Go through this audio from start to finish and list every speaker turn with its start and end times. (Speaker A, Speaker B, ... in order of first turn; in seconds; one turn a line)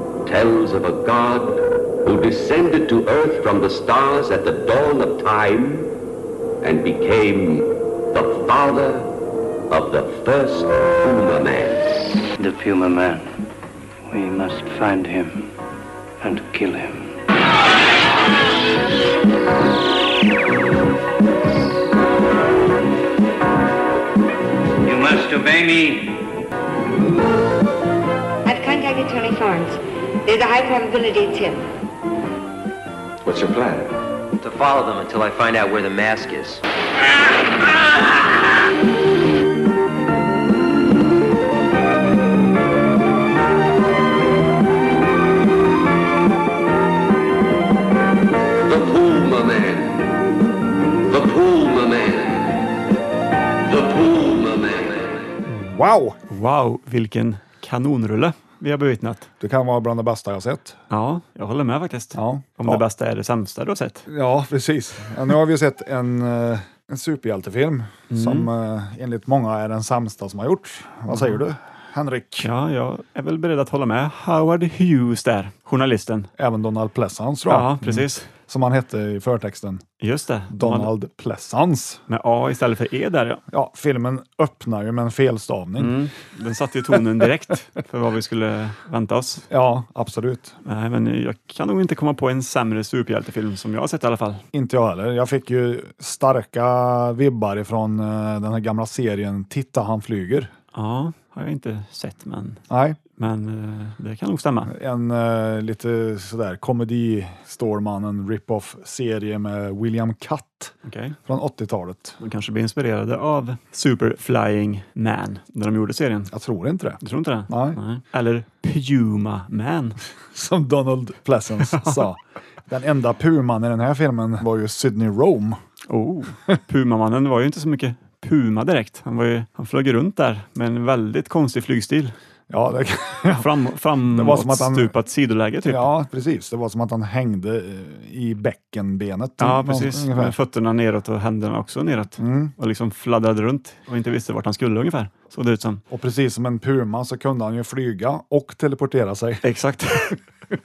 Speaker A: 0.2-5.9
Speaker A: 6.6-9.1
Speaker A: 9.7-12.1
Speaker B: 12.4-13.3
Speaker B: 14.1-15.5
Speaker B: 16.2-17.0
Speaker B: 24.8-26.2
Speaker C: 28.4-31.6
Speaker D: 34.4-36.6
Speaker A: 48.6-50.0
Speaker A: 51.1-52.6
Speaker A: 53.6-55.2
Speaker E: 55.4-56.2
Speaker F: 56.3-59.3
Speaker E: 59.4-60.8
Speaker F: 60.9-64.1
Speaker E: 62.1-62.8
Speaker E: 64.1-72.5
Speaker F: 68.1-68.5
Speaker F: 72.4-76.3
Speaker E: 76.4-79.8
Speaker F: 77.5-78.3
Speaker F: 80.0-80.9
Speaker E: 80.5-82.0
Speaker F: 82.1-83.4
Speaker E: 83.5-86.0
Speaker F: 85.8-89.5
Speaker E: 89.5-90.5
Speaker F: 90.6-94.4
Speaker E: 94.5-100.5
Speaker F: 100.7-102.6
Speaker E: 102.7-103.0
Speaker F: 103.2-104.7
Speaker E: 104.7-110.7
Speaker F: 110.8-111.2
Speaker E: 111.2-112.2
Speaker F: 112.2-116.3
Speaker E: 116.3-117.8
Speaker F: 117.0-120.0
Speaker E: 120.3-125.6
Speaker F: 121.7-122.0
Speaker F: 125.9-132.1
Speaker E: 132.5-133.5
Speaker F: 133.2-135.9
Speaker E: 134.0-134.9
Speaker E: 135.7-140.3
Speaker F: 139.4-145.8
Speaker E: 142.2-142.5
Speaker E: 145.9-149.4
Speaker F: 149.4-150.2